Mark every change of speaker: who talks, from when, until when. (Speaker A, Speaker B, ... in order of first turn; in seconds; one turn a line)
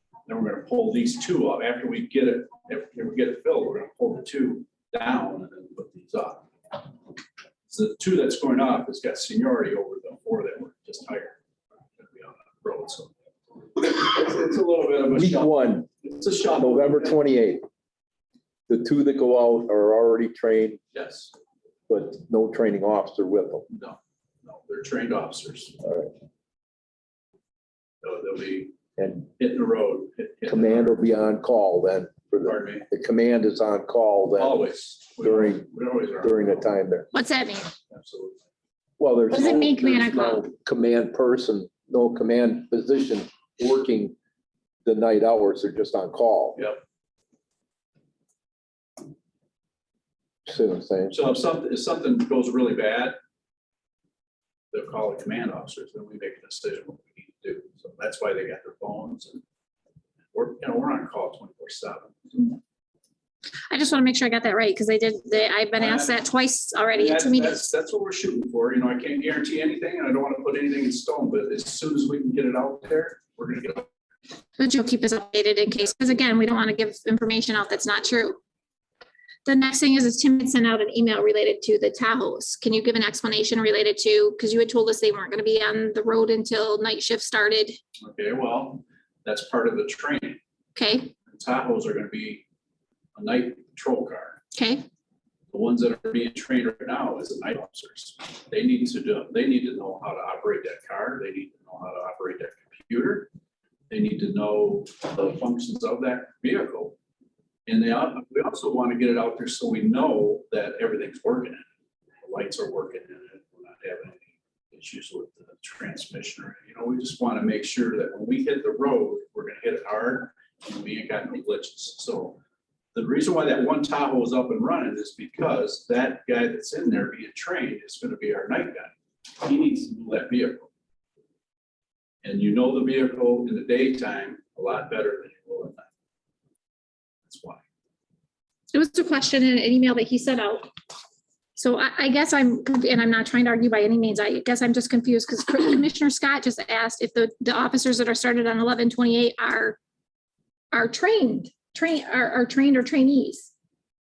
Speaker A: 0.3-6.8
Speaker A: 7.7-11.4
Speaker A: 12.0-13.1
Speaker A: 13.8-17.2
Speaker B: 15.1-15.9
Speaker B: 16.4-17.6
Speaker B: 18.7-20.8
Speaker A: 20.9-21.3
Speaker B: 21.9-23.7
Speaker A: 23.7-25.8
Speaker B: 25.8-26.1
Speaker A: 28.0-28.8
Speaker B: 29.0-29.3
Speaker A: 29.4-31.1
Speaker B: 30.5-34.6
Speaker A: 32.4-32.9
Speaker A: 34.4-36.7
Speaker B: 35.2-35.7
Speaker B: 36.2-37.1
Speaker C: 37.1-37.7
Speaker A: 37.9-38.4
Speaker B: 39.0-44.1
Speaker C: 39.3-40.4
Speaker B: 44.8-46.6
Speaker B: 50.5-51.1
Speaker A: 51.1-53.2
Speaker A: 54.7-59.4
Speaker A: 60.3-62.6
Speaker C: 63.7-67.7
Speaker A: 65.7-66.2
Speaker A: 66.9-73.9
Speaker C: 74.6-78.4
Speaker C: 79.5-87.8
Speaker A: 88.0-90.4
Speaker C: 90.7-91.1
Speaker A: 91.3-92.4
Speaker A: 93.1-94.4
Speaker C: 94.5-94.8
Speaker A: 95.5-103.3
Speaker A: 103.9-107.0
Speaker A: 107.7-111.6
Speaker A: 112.2-122.4
Speaker A: 122.9-130.7
Speaker A: 132.2-135.9
Speaker A: 137.2-137.6
Speaker C: 138.7-140.7
Speaker C: 141.6-149.8
Speaker C: 150.7-153.5